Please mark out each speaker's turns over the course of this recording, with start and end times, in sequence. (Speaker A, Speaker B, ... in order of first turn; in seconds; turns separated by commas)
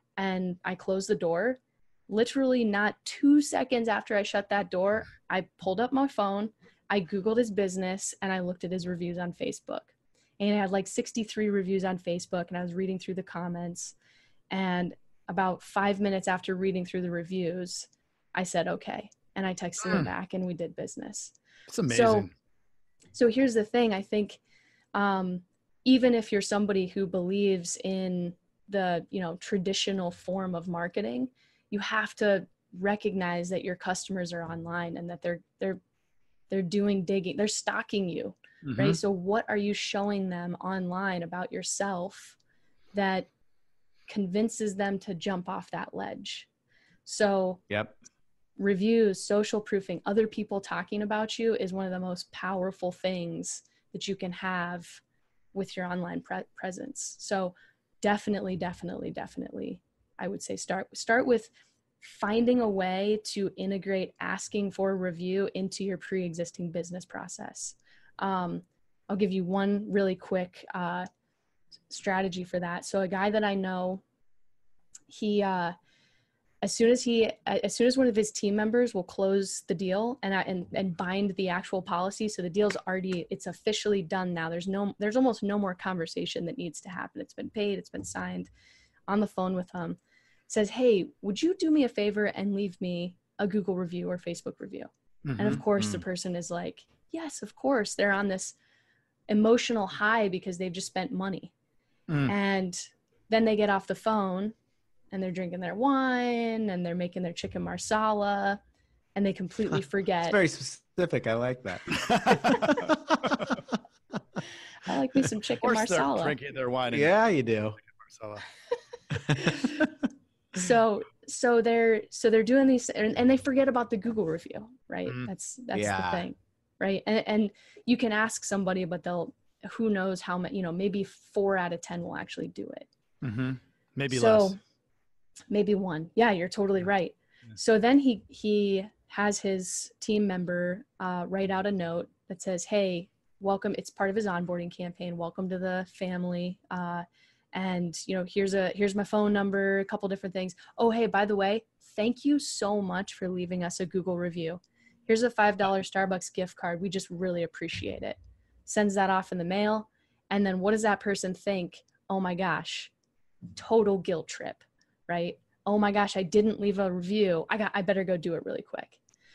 Speaker A: 0.2-13.9, Speaker A: 14.5-21.3, Speaker B: 21.7-22.3, Speaker A: 21.9-22.3, Speaker A: 23.1-24.4, Speaker A: 24.9-35.8, Speaker A: 36.5-42.4, Speaker B: 38.6-39.0, Speaker A: 42.9-43.3, Speaker A: 44.1-46.5, Speaker A: 47.0-47.6, Speaker C: 47.7-47.9, Speaker A: 48.6-55.0, Speaker A: 55.5-61.5, Speaker A: 62.0-71.1, Speaker A: 71.9-74.0, Speaker A: 75.1-75.7, Speaker A: 76.6-88.5, Speaker A: 89.1-98.5, Speaker B: 95.2-95.6, Speaker C: 95.8-96.0, Speaker A: 99.3-101.5, Speaker B: 102.1-102.3, Speaker A: 102.3-104.5, Speaker A: 105.1-108.6, Speaker A: 109.1-110.4, Speaker C: 110.2-113.6, Speaker B: 111.9-112.8, Speaker A: 114.8-116.4, Speaker B: 115.6-117.2, Speaker C: 116.9-117.8, Speaker B: 118.0-118.4, Speaker C: 119.2-119.8, Speaker A: 119.3-119.9, Speaker A: 120.5-132.9, Speaker C: 125.7-126.3, Speaker B: 133.2-134.5, Speaker A: 134.1-134.6, Speaker A: 135.5-162.9, Speaker A: 163.6-169.0